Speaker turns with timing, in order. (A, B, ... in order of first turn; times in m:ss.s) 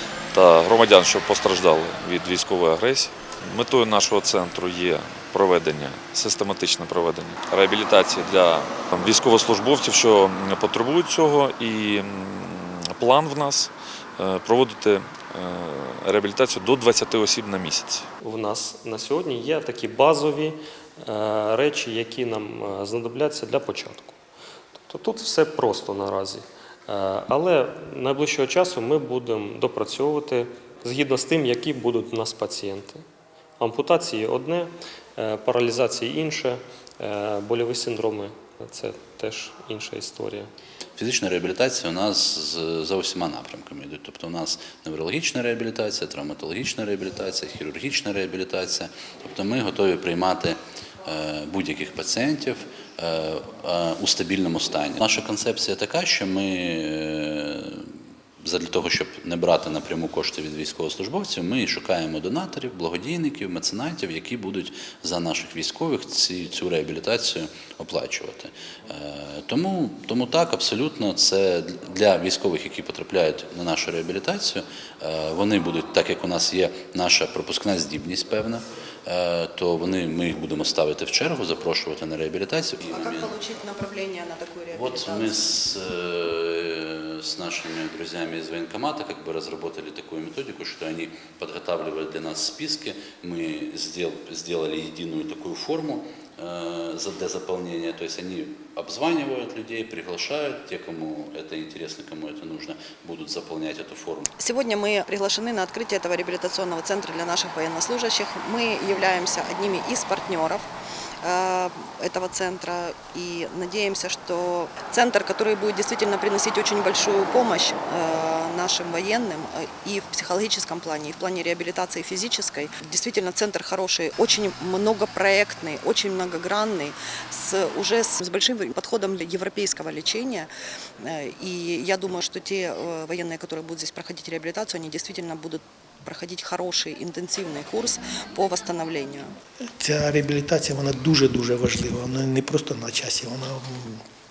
0:00.3-0:18.1 A
0:18.2-0:24.2 B
0:24.9-0:33.0 B
0:33.6-0:40.5 B
0:41.0-1:23.4 C
1:22.9-1:25.5 D
1:24.7-1:44.3 C
1:44.4-1:50.7 D
1:51.2-2:10.5 D
2:11.0-2:19.3 D
2:19.8-2:24.0 E